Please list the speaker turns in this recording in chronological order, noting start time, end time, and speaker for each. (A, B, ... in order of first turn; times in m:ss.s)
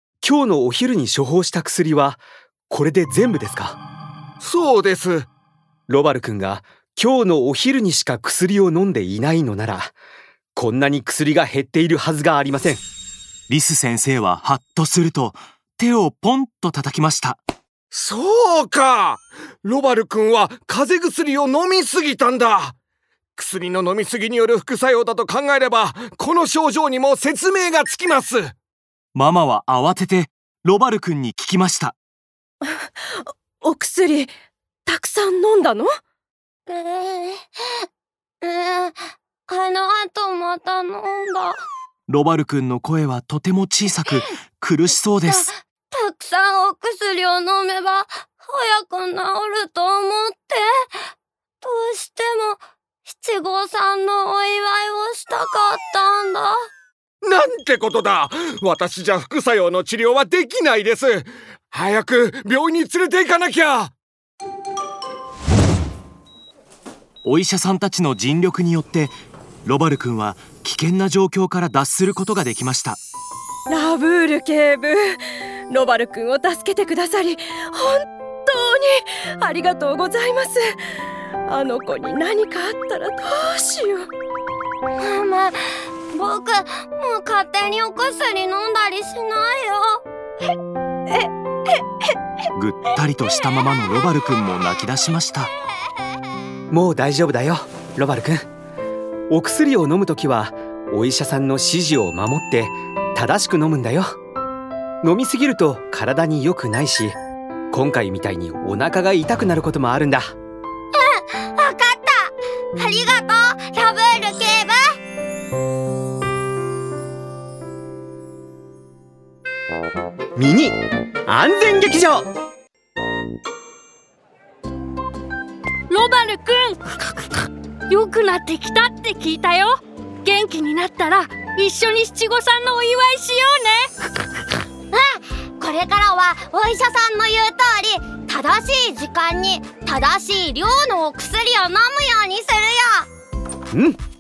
0:00.2-0:03.8 A
0:04.4-0:05.3 B
0:05.9-0:09.9 A
0:10.6-0:12.8 A
0:13.5-0:17.4 C
0:17.9-0:22.8 B
0:23.4-0:28.5 B
0:29.2-0:32.0 C
0:32.9-0:34.3 D
0:34.9-0:35.9 D
0:36.7-0:37.4 E
0:38.4-0:41.6 E
0:42.1-0:45.5 C
0:45.3-0:51.0 E
0:51.6-0:56.6 E
0:57.2-1:03.9 B
1:07.2-1:09.1 C
1:09.6-1:13.0 C
1:13.7-1:20.8 D
1:21.5-1:24.1 D
1:25.0-1:30.0 E
1:32.6-1:35.5 C
1:36.7-1:38.5 A
1:39.3-1:44.1 A
1:45.0-1:47.2 A
1:47.7-1:50.4 A
1:50.9-1:55.0 E
2:00.4-2:02.3 A
2:05.9-2:06.8 F
2:07.9-2:13.9 F
2:14.9-2:23.1 E